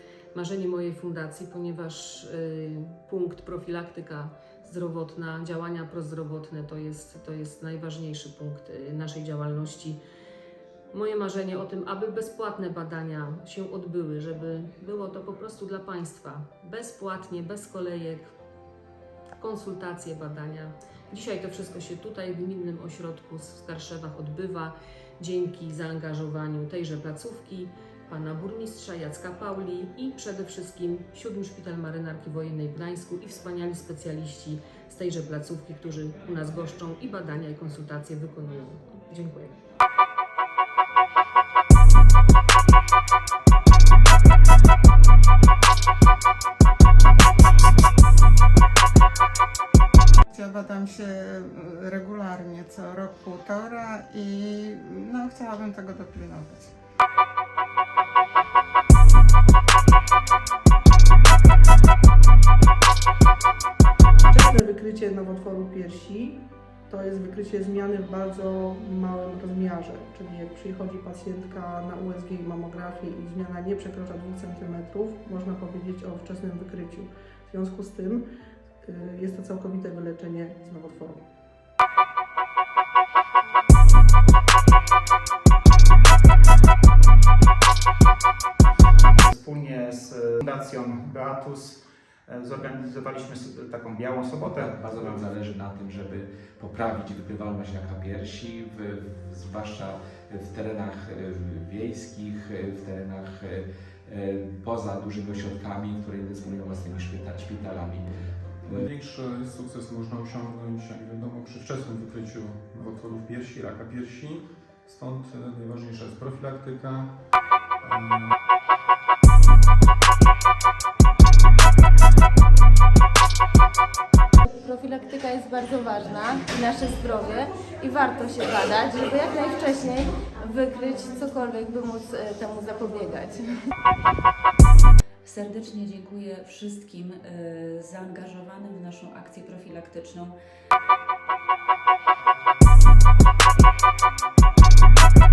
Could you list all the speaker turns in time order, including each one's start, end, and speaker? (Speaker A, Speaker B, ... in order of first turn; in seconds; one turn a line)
Speaker A: 0.3-10.0
Speaker A: 10.9-18.3
Speaker A: 19.4-39.6
Speaker B: 50.4-53.7
Speaker B: 55.2-56.7
Speaker C: 64.3-78.2
Speaker C: 78.8-81.2
Speaker D: 89.2-95.2
Speaker E: 94.5-108.1
Speaker F: 108.7-118.3
Speaker G: 124.5-133.5
Speaker H: 135.2-140.4